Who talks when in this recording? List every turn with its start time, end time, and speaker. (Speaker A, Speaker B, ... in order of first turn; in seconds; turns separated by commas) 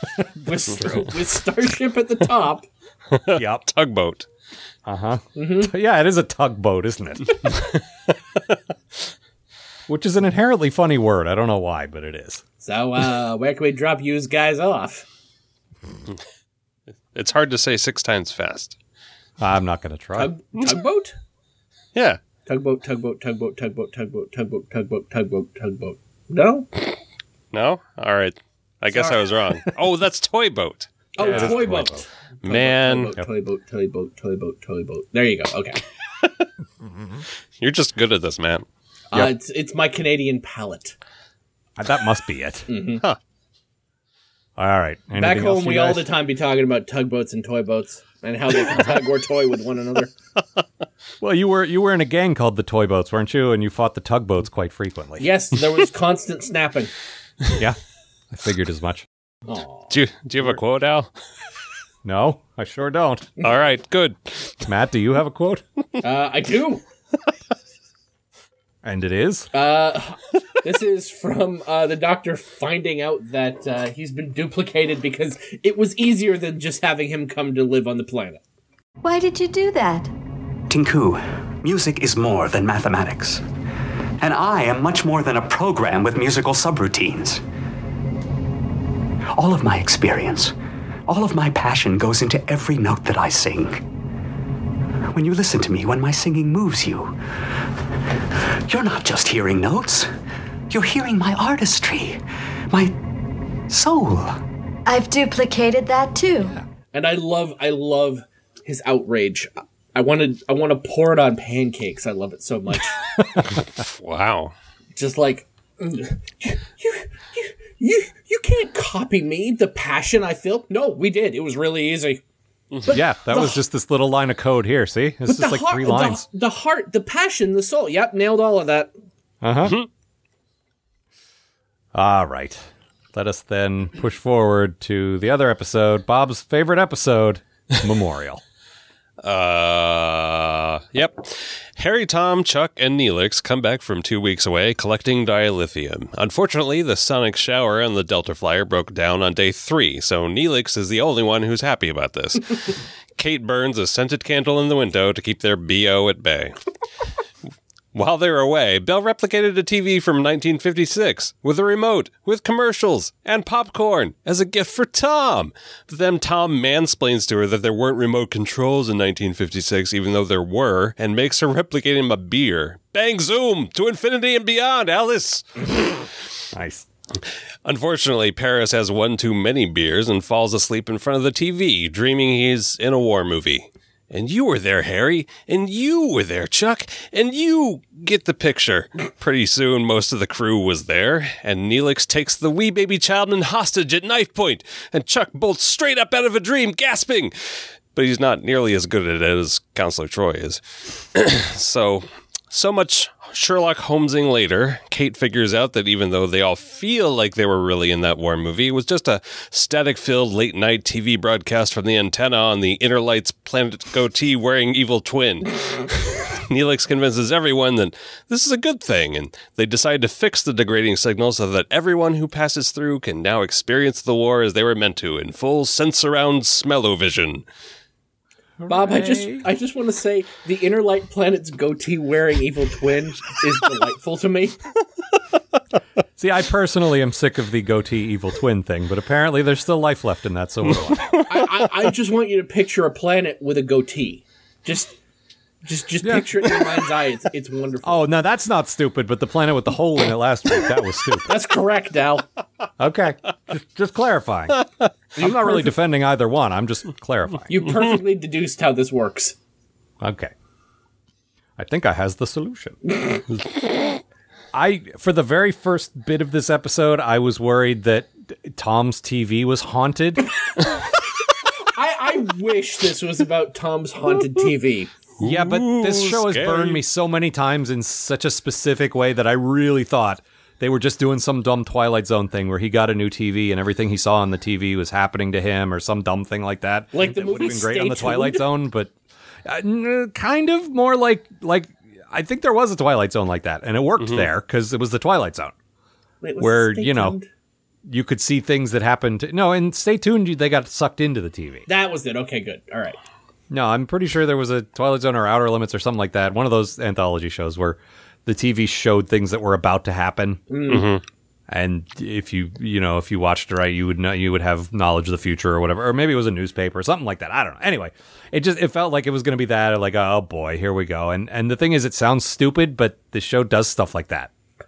Speaker A: 0.4-2.7, Speaker B: 3.1-4.2, Speaker C: 3.3-3.6, Speaker C: 4.8-7.6, Speaker A: 5.3-5.7, Speaker C: 9.9-12.4, Speaker A: 12.6-15.1, Speaker B: 17.1-18.7, Speaker C: 19.4-20.3, Speaker A: 20.1-21.1, Speaker B: 21.9-22.2, Speaker A: 22.4-26.7, Speaker B: 27.5-31.6, Speaker A: 28.9-29.2, Speaker A: 31.1-35.8, Speaker C: 31.2-32.0, Speaker B: 32.4-33.1, Speaker B: 37.6-38.6, Speaker A: 39.1-41.0, Speaker C: 41.8-42.7, Speaker A: 42.7-43.0, Speaker C: 44.6-46.1, Speaker A: 45.1-50.1, Speaker C: 51.2-55.3, Speaker A: 55.2-56.9, Speaker C: 58.3-59.0, Speaker A: 59.5-59.9, Speaker B: 59.9-61.1, Speaker C: 62.0-63.3, Speaker B: 63.4-64.7, Speaker C: 64.6-65.6, Speaker A: 66.0-66.8, Speaker C: 68.8-69.5, Speaker A: 69.5-78.4, Speaker D: 79.0-80.1, Speaker E: 80.7-83.4, Speaker E: 84.2-87.4, Speaker E: 89.3-90.5, Speaker E: 91.1-93.8, Speaker E: 95.1-97.2, Speaker E: 98.3-100.1, Speaker E: 100.7-103.0, Speaker E: 103.7-104.4, Speaker D: 104.8-106.5, Speaker A: 106.9-113.0, Speaker B: 113.5-114.5, Speaker A: 115.0-122.2, Speaker A: 122.8-123.6, Speaker C: 122.9-126.2, Speaker A: 125.2-128.9, Speaker C: 129.4-129.8, Speaker C: 131.9-138.4, Speaker B: 139.2-156.6, Speaker B: 157.9-176.1, Speaker C: 176.5-176.8, Speaker B: 177.6-227.4, Speaker C: 228.6-229.5, Speaker A: 228.7-234.6, Speaker C: 236.2-241.2, Speaker A: 241.2-244.9, Speaker A: 245.6-248.0, Speaker C: 246.0-246.6, Speaker C: 247.8-251.3, Speaker A: 251.3-252.2, Speaker C: 252.8-254.6, Speaker C: 255.2-257.5, Speaker A: 255.2-255.6, Speaker A: 257.5-259.3, Speaker C: 260.0-260.3, Speaker C: 261.6-262.8, Speaker C: 264.5-270.3, Speaker A: 271.7-274.9, Speaker B: 275.2-276.8, Speaker C: 275.2-288.9, Speaker A: 286.9-288.4, Speaker C: 289.4-295.5, Speaker B: 294.0-294.3, Speaker A: 296.2-297.3, Speaker C: 296.4-297.2, Speaker C: 297.9-301.6, Speaker A: 301.7-303.0, Speaker C: 303.5-310.4, Speaker A: 310.5-310.9, Speaker B: 310.7-311.0, Speaker C: 311.5-324.3